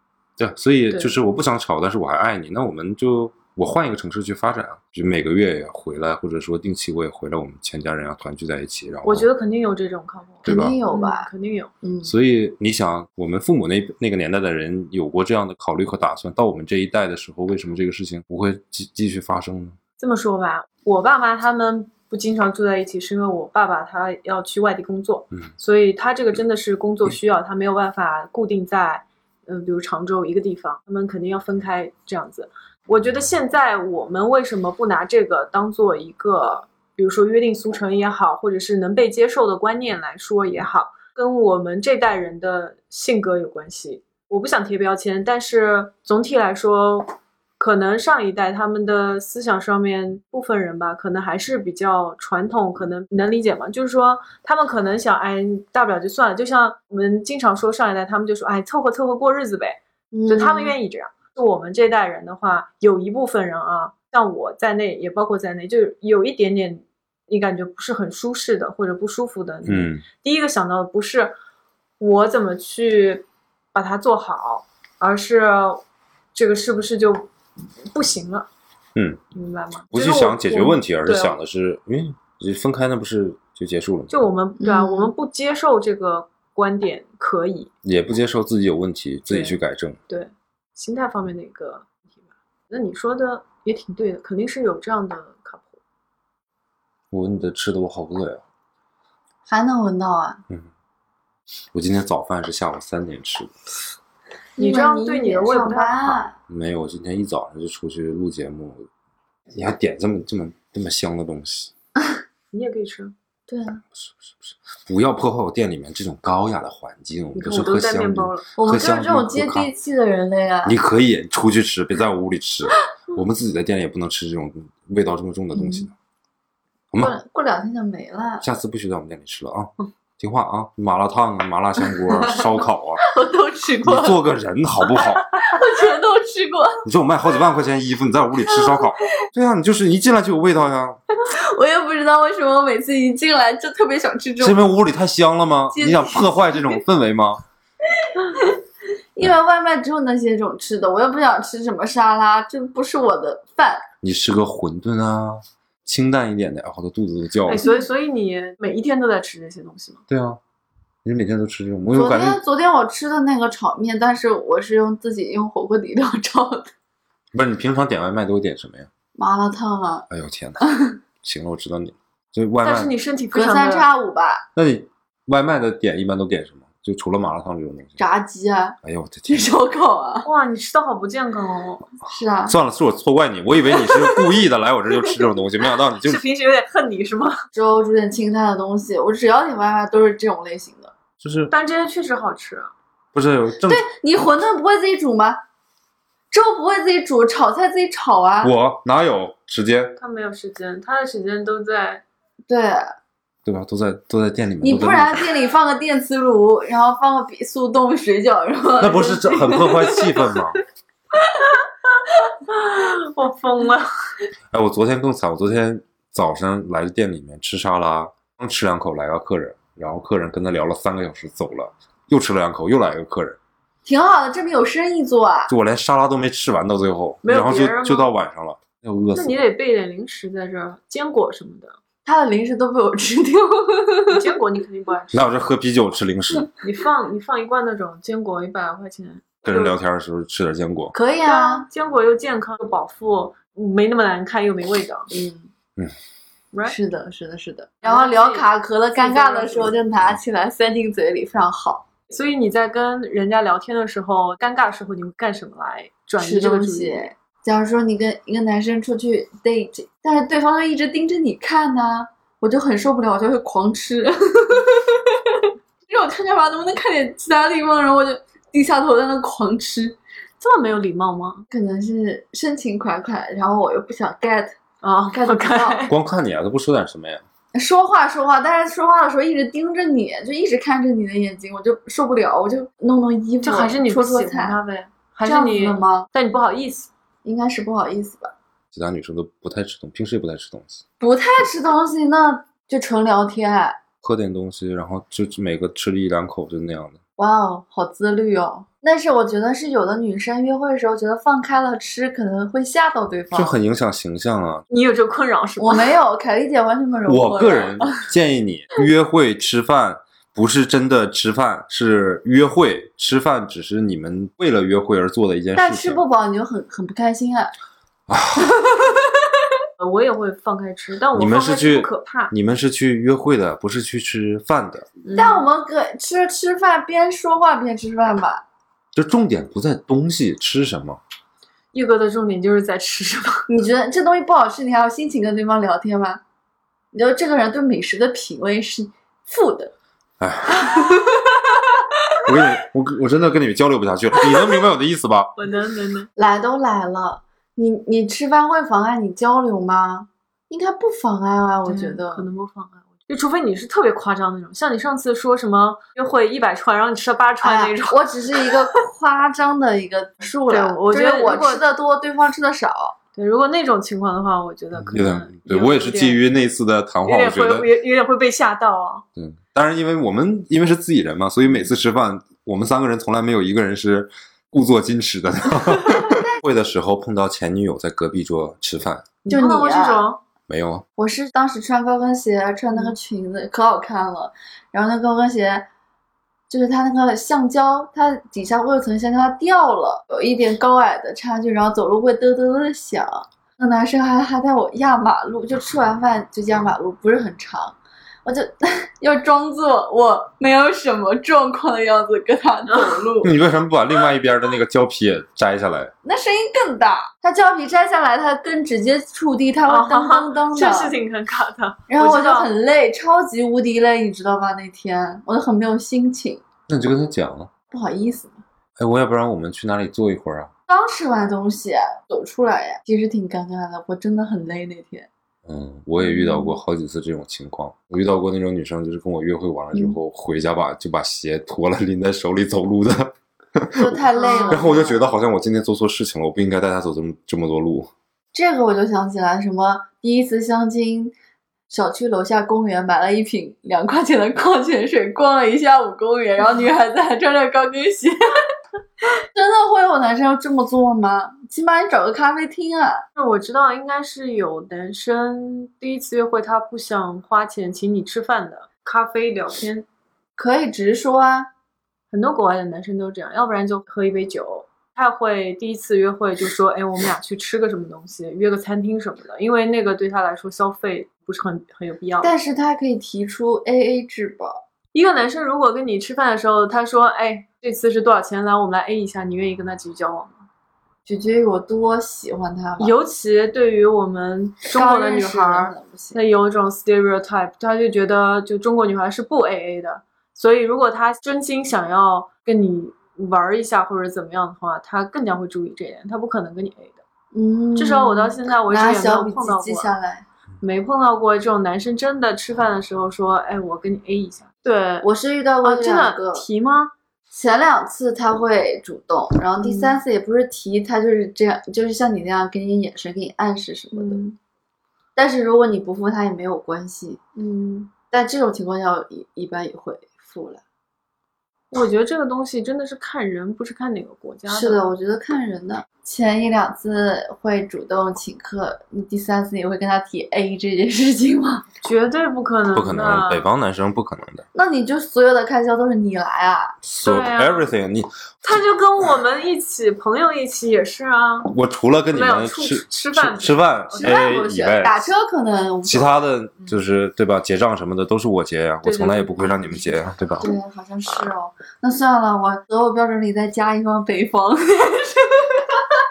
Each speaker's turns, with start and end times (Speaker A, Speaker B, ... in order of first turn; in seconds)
Speaker A: 0.4-9.3, 10.4-10.8, 12.0-19.8, 69.7-70.0, 79.0-79.2, 79.9-84.3, 87.8-90.0, 97.1-98.4, 101.7-103.5, 106.5-108.9, 109.5-111.7, 114.0-119.7, 120.7-125.9, 128.4-133.0, 133.8-135.3, 136.8-141.0, 144.4-147.4, 154.0-157.7, 160.1-160.4, 161.0-162.4, 167.3-168.9, 170.1-170.7, 171.2-172.9, 174.6-178.0, 178.8-179.5, 182.5-186.2, 191.2-191.5, 193.1-193.8, 198.4-200.0, 203.4-205.3, 208.8-210.6, 214.5-223.4, 225.5-229.4, 235.1-236.5, 239.4-240.9, 275.9-277.2, 288.7-290.8, 294.0-297.0, 303.3-304.6, 307.1-316.0, 318.1-318.6, 321.1-324.9, 328.9-331.0, 340.2-341.2, 342.2-345.3, 364.8-367.7, 369.2-379.2, 380.5-380.9, 403.2-405.9, 416.7-417.5, 418.8-420.5, 425.4-437.9, 532.7-534.5, 536.8-538.1, 541.5-545.1, 545.9-550.5
Speaker B: 0.9-1.2, 9.0-11.7, 20.0-71.4, 72.0-77.3, 77.9-78.5, 79.3-81.4, 84.1-87.7, 89.3-95.8, 104.6-106.2, 112.5-113.1, 117.3-118.5, 157.5-160.0, 172.6-173.9, 180.2-181.9, 186.0-187.4, 191.5-192.7, 200.0-202.0, 212.4-213.9, 227.2-228.2, 229.1-231.8, 234.1-235.3, 236.6-239.8, 241.2-245.1, 246.5-246.8, 247.8-249.7, 252.1-257.1, 270.4-271.5, 274.8-275.9, 283.4-286.9, 304.7-306.0, 319.8-322.3, 325.0-325.5, 331.7-333.5, 345.4-346.1, 351.6-358.0, 360.5-361.6, 363.2-366.2, 367.1-369.1, 379.2-380.2, 402.7-403.0, 409.7-412.5, 434.2-434.7, 453.2-459.9, 462.1-472.3, 474.9-480.4, 482.8-497.0, 497.8-499.9, 500.6-505.1, 505.6-506.9, 509.6-510.0, 513.9-514.4, 517.4-517.9, 521.7-524.8, 531.8-533.5, 537.0-537.7, 538.4-541.5, 542.1-544.5, 548.8-549.8
Speaker C: 10.5-11.3, 11.8-12.1, 60.1-60.8, 84.6-85.1, 99.5-100.4, 104.6-106.3, 113.5-113.8, 118.6-120.8, 125.5-125.9, 127.0-128.5, 131.9-134.2, 135.4-136.8, 138.5-138.8, 141.3-144.7, 145.7-146.8, 148.3-148.6, 149.2-153.8, 161.9-166.7, 169.2-170.1, 170.6-170.9, 173.3-174.4, 178.0-178.8, 179.3-180.3, 182.1-182.6, 187.5-190.9, 193.7-195.4, 196.3-198.5, 202.5-203.0, 204.6-210.1, 223.8-225.5, 232.1-234.3, 240.9-241.7, 245.1-245.5, 246.7-251.8, 256.2-270.0, 271.5-274.6, 275.1-275.9, 277.6-284.6, 285.2-286.1, 287.2-288.3, 291.0-293.8, 297.2-303.6, 305.6-308.0, 315.6-317.5, 318.4-318.7, 325.1-328.4, 333.5-336.2, 336.9-339.7, 340.6-341.2, 346.2-352.3, 357.4-362.9, 376.1-376.4, 379.3-380.1, 381.0-385.7, 386.5-403.3, 406.0-411.0, 411.9-416.4, 417.7-418.4, 420.7-425.1, 426.0-426.5, 433.7-435.0, 438.3-441.1, 441.7-448.4, 449.2-453.1, 460.4-461.5, 472.2-474.6, 481.1-482.9, 484.7-486.2, 497.3-500.3, 505.0-506.4, 507.3-514.2, 515.2-517.2, 518.1-520.6, 524.5-531.7, 534.5-536.8, 544.0-546.3, 550.4-555.8